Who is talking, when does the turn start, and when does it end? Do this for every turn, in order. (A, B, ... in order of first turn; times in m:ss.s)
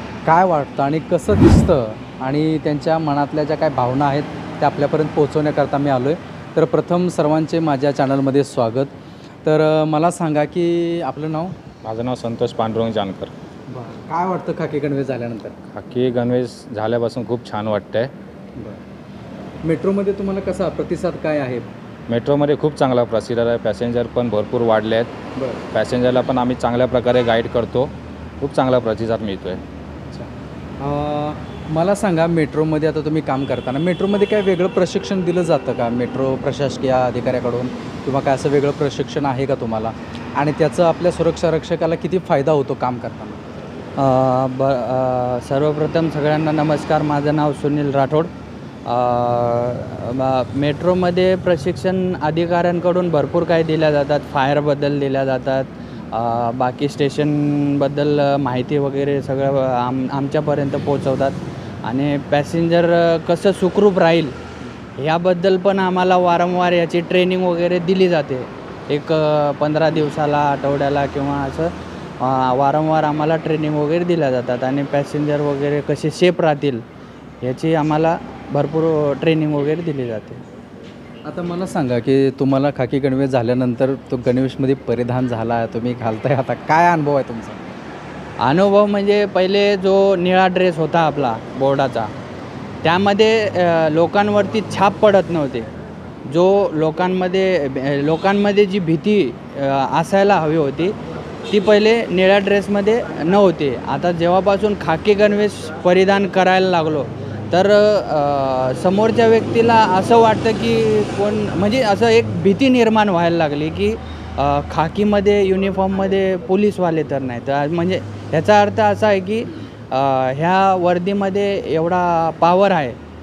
0:00.2-0:08.9 A
0:09.4-0:11.5 A
0:11.8-0:13.3 B
0:13.7-0:15.6 A
0:15.7-0:18.1 B
0:19.6-0:21.7 A
0:22.1-0:25.1 B
0:25.4-0:25.6 A
0:25.7-0:29.6 B
0:30.8-0:43.4 A
0:44.0-0:48.3 C
0:48.8-1:04.3 C
1:05.0-1:16.8 C
1:17.4-1:20.4 C
1:21.2-1:27.7 A
1:28.4-1:32.1 C
1:32.8-1:35.7 C
1:36.2-1:40.9 C
1:41.5-2:03.0 C